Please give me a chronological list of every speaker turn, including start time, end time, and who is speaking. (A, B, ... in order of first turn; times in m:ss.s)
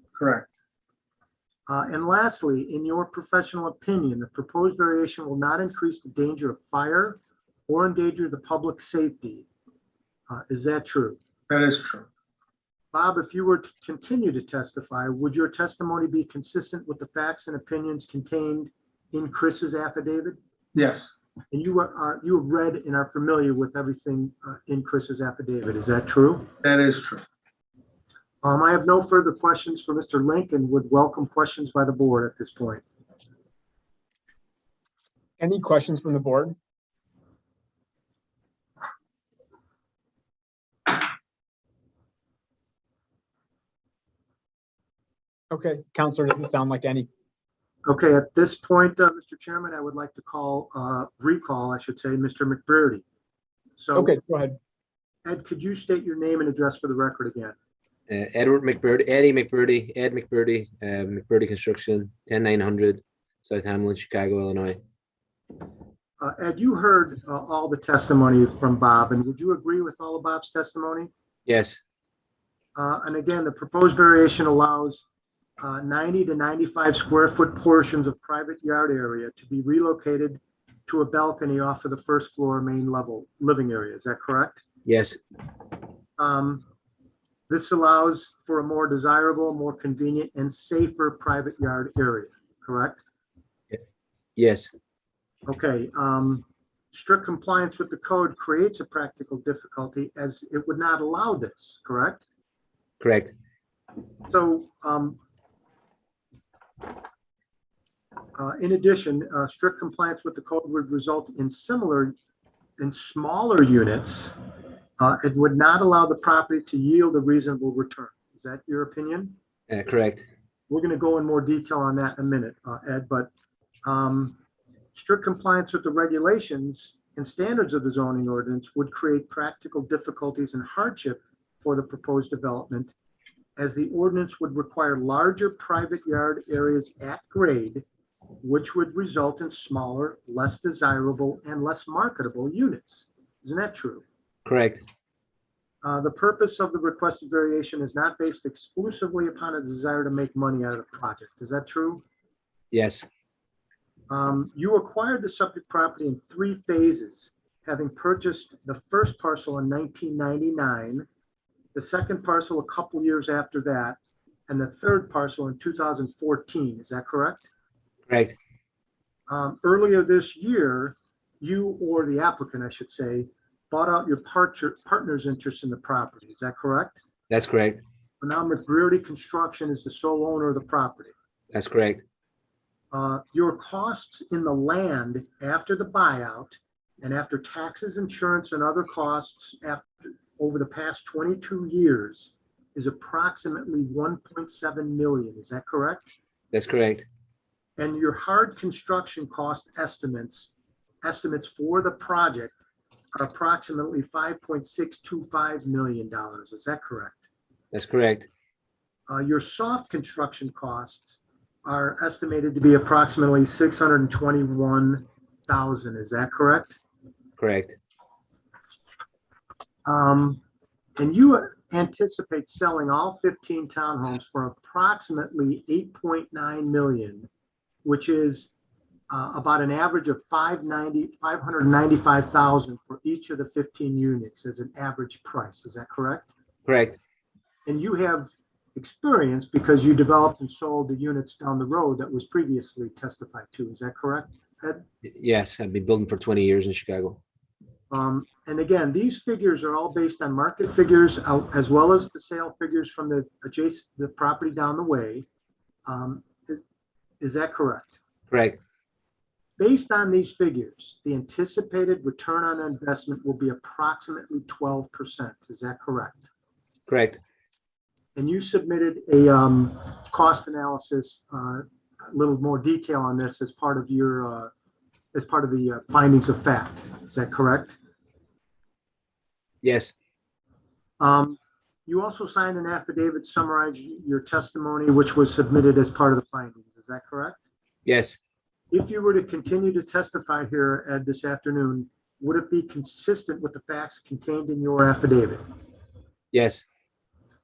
0:00.2-0:00.5 A
0:01.7-0:09.5 B
0:10.3-0:11.2 B
0:11.5-0:12.0 A
0:12.9-0:20.4 B
0:20.7-0:21.1 A
0:21.5-0:26.5 B
0:26.6-0:27.2 A
0:28.4-0:32.8 B
0:35.4-0:36.6 C
0:45.5-0:47.1 C
0:47.8-0:53.0 B
0:53.8-0:54.2 B
0:53.9-0:54.6 C
0:55.2-0:57.5 B
0:58.1-1:04.8 D
1:06.2-1:11.1 B
1:11.4-1:11.8 D
1:12.8-1:15.0 B
1:15.6-1:24.6 B
1:24.8-1:25.2 D
1:26.2-1:26.6 B
1:27.5-1:33.0 B
1:34.4-1:34.7 D
1:35.5-1:42.2 B
1:43.0-1:43.3 D
1:44.3-1:45.2 B
1:48.4-1:52.1 B
1:52.8-1:54.3 B
1:55.0-1:59.3 B
1:59.7-2:00.2 D
2:00.7-2:03.3 B
2:03.8-2:04.4 B
2:04.9-2:12.9 B
2:13.6-2:17.8 B
2:18.4-2:24.0 B
2:24.4-2:24.8 D
2:25.8-2:32.0 B
2:32.7-2:33.0 D
2:34.1-2:41.1 B
2:41.7-2:44.0 B
2:44.5-2:47.5 B
2:48.1-2:48.4 D
2:49.3-2:57.0 B
2:57.3-2:57.8 D
2:58.2-3:01.1 B
3:01.5-3:02.0 D
3:02.9-3:16.1 B
3:16.5-3:17.0 D
3:17.8-3:20.5 B
3:21.0-3:22.6 B
3:23.2-3:27.2 B
3:27.7-3:28.3 D
3:29.1-3:36.8 B
3:37.4-3:37.8 D
3:39.8-3:40.4 B
3:41.0-3:47.3 B
3:47.8-3:48.5 B
3:49.1-3:56.3 B
3:56.6-3:57.0 D
3:57.6-4:04.8 B
4:05.0-4:07.2 D
4:07.9-4:15.3 B
4:15.8-4:16.6 B
4:17.2-4:18.0 B
4:18.3-4:18.6 D
4:19.6-4:26.3 B
4:26.9-4:27.2 D
4:28.1-4:34.5 B
4:35.1-4:37.8 B
4:39.6-4:39.9 D
4:41.0-4:47.4 B
4:47.8-4:48.2 D
4:48.7-4:55.4 B
4:56.3-4:56.6 D